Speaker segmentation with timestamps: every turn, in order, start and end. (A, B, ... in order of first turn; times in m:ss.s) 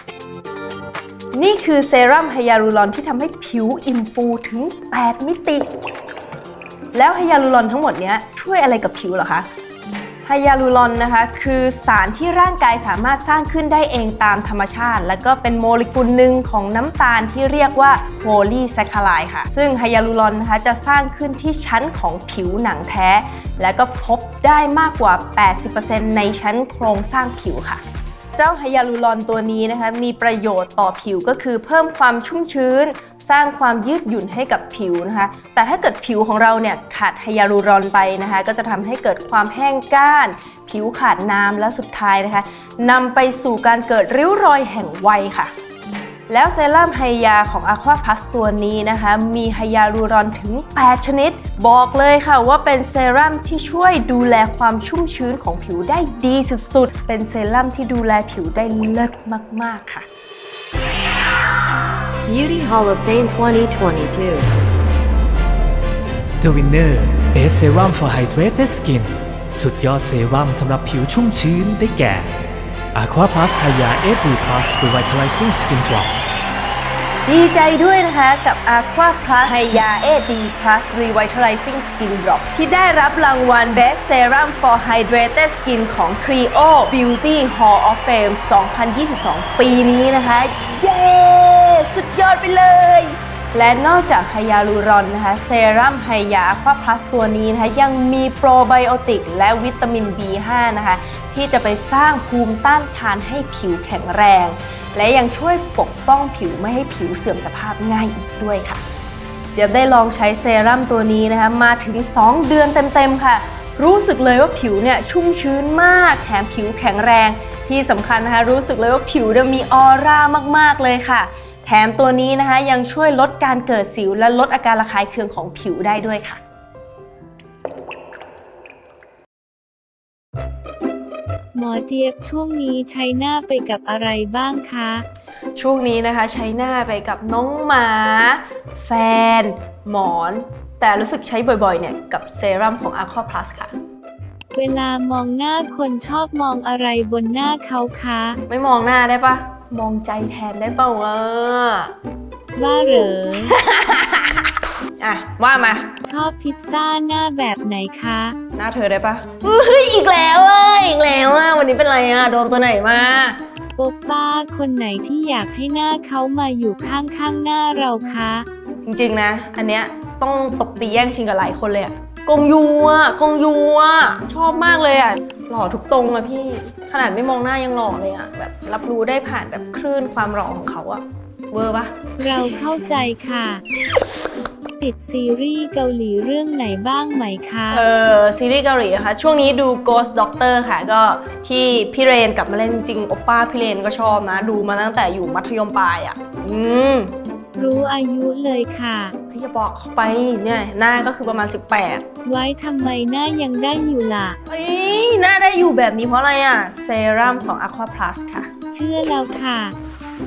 0:01.3-0:05.7 A
0:06.9-0:09.5 A
0:10.2-0:27.8 A
0:28.4-0:45.5 A
0:46.3-1:00.1 A
1:02.3-1:04.5 B
1:06.4-1:12.3 C
1:13.0-1:16.3 C
1:17.3-1:48.8 A
1:49.5-2:06.4 A
2:11.6-2:15.0 D
2:15.6-2:23.8 A
2:24.6-2:28.4 D
2:28.5-2:31.9 A
2:32.6-2:33.6 D
2:33.3-2:35.9 A
2:36.1-2:38.4 D
2:38.6-2:43.4 A
2:43.8-2:48.5 D
2:48.9-3:02.0 A
3:02.2-3:03.6 D
3:04.8-3:07.8 D
3:07.7-3:17.1 A
3:17.6-3:19.1 D
3:19.3-3:22.0 A
3:22.3-3:24.4 D
3:24.5-3:28.5 A
3:28.7-3:29.8 D